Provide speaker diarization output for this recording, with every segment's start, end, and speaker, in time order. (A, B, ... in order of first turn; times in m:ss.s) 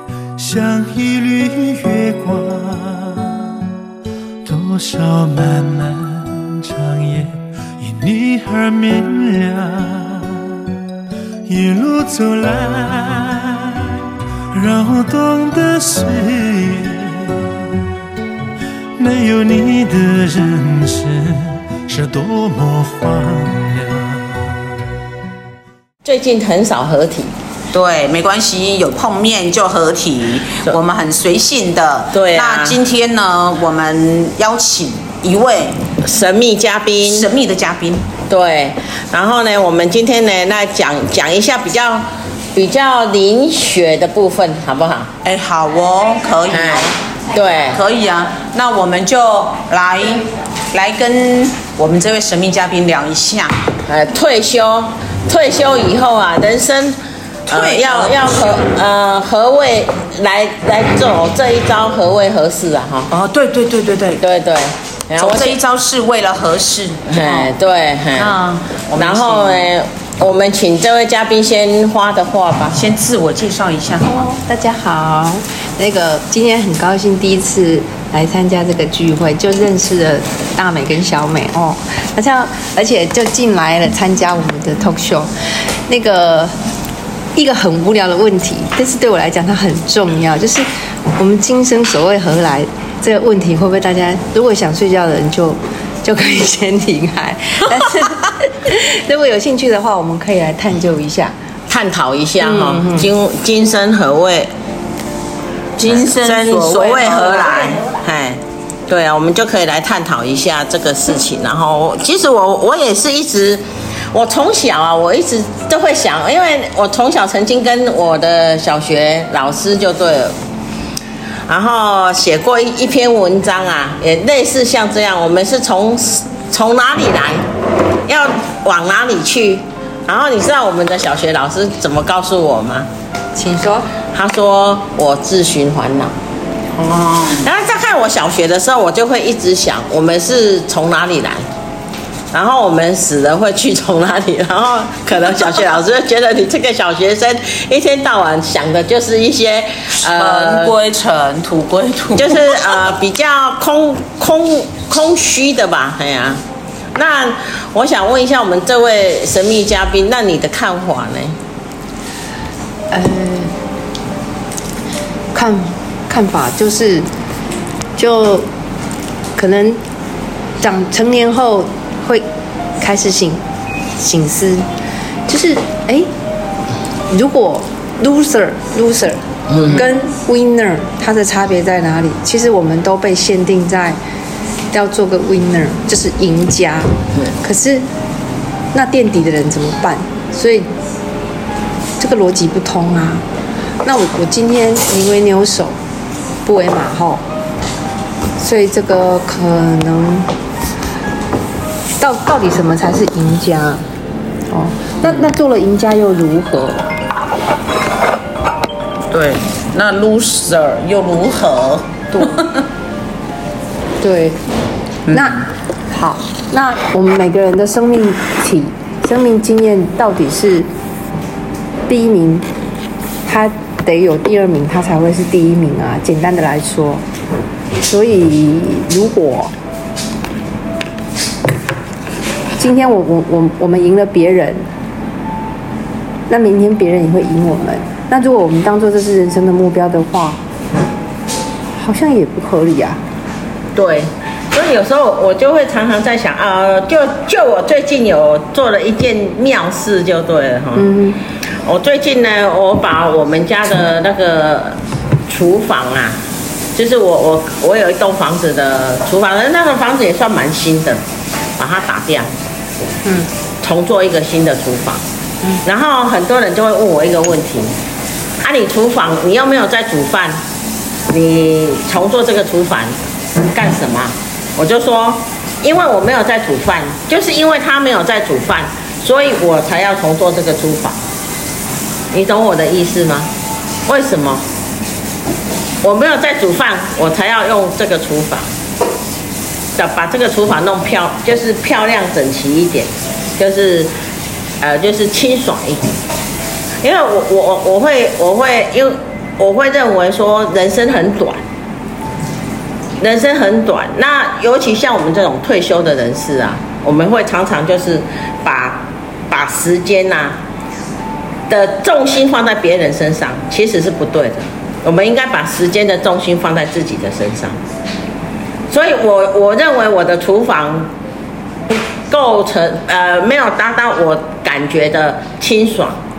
0:00.4-0:03.6 A
0:04.4-0:10.6 A
0:11.4-0:14.0 A
0:14.5-0:17.6 A
0:19.0-0:24.6 A
0:26.0-0:27.3 B
0:27.7-0:35.8 C
0:32.1-0:32.8 B
0:36.0-0:37.3 B
0:37.0-0:38.0 C
0:38.3-0:45.1 B
0:45.2-0:47.0 C
0:46.5-0:47.8 B
0:47.7-0:53.5 C
0:53.9-0:57.0 B
0:57.5-0:58.2 C
0:57.5-1:03.1 B
1:03.1-1:04.2 C
1:04.2-1:05.6 B
1:05.2-1:07.5 C
1:07.1-1:08.4 B
1:08.1-1:09.6 C
1:09.0-1:12.8 B
1:12.7-1:14.3 C
1:14.1-1:25.3 D
1:25.9-1:26.5 D
1:27.4-1:41.3 D
1:41.7-1:44.5 B
1:42.4-1:43.1 D
1:45.8-2:00.4 B
1:45.8-1:47.8 C
2:01.5-2:07.4 B
2:08.0-2:12.9 B
2:13.3-2:13.8 D
2:14.1-2:16.1 B
2:16.8-2:17.4 C
2:17.3-2:21.4 B
2:22.3-2:30.8 B
2:30.1-2:32.4 C
2:32.2-2:36.4 B
2:36.9-2:41.4 B
2:42.9-2:43.5 D
2:45.3-2:47.1 D
2:48.0-2:48.5 D
2:49.4-2:49.8 D
2:50.6-2:52.2 D
2:52.8-2:53.4 D
2:54.0-2:54.7 D
2:55.3-2:56.1 D
2:57.1-3:04.0 D
2:59.5-2:59.8 B
3:04.7-3:07.8 D
3:08.7-3:10.7 D
3:12.0-3:13.2 D
3:13.8-3:15.8 D
3:16.4-3:17.2 D
3:18.4-3:20.3 D
3:22.0-3:23.8 D
3:24.5-3:26.9 D
3:29.1-3:32.5 C
3:34.0-3:34.4 D
3:35.1-3:35.3 C
3:35.1-3:40.7 D
3:41.9-3:42.4 D
3:43.2-3:47.0 D
3:47.8-3:49.5 D
3:52.6-3:54.7 D
3:56.3-4:00.4 D
4:01.8-4:03.0 D
4:03.7-4:10.9 B
4:10.8-4:11.2 D
4:11.6-4:16.2 B
4:16.7-4:21.0 B
4:21.6-4:22.3 B
4:23.6-4:25.0 B
4:25.6-4:27.7 B
4:28.4-4:30.4 B
4:31.1-4:41.0 B
4:42.1-4:43.3 B
4:43.8-4:44.4 B
4:45.8-4:48.5 B
4:49.8-4:53.9 B
4:54.6-4:55.9 B
4:56.8-5:01.4 B
5:03.0-5:10.4 B
5:11.5-5:17.6 B
5:18.7-5:20.9 B
5:21.7-5:26.0 B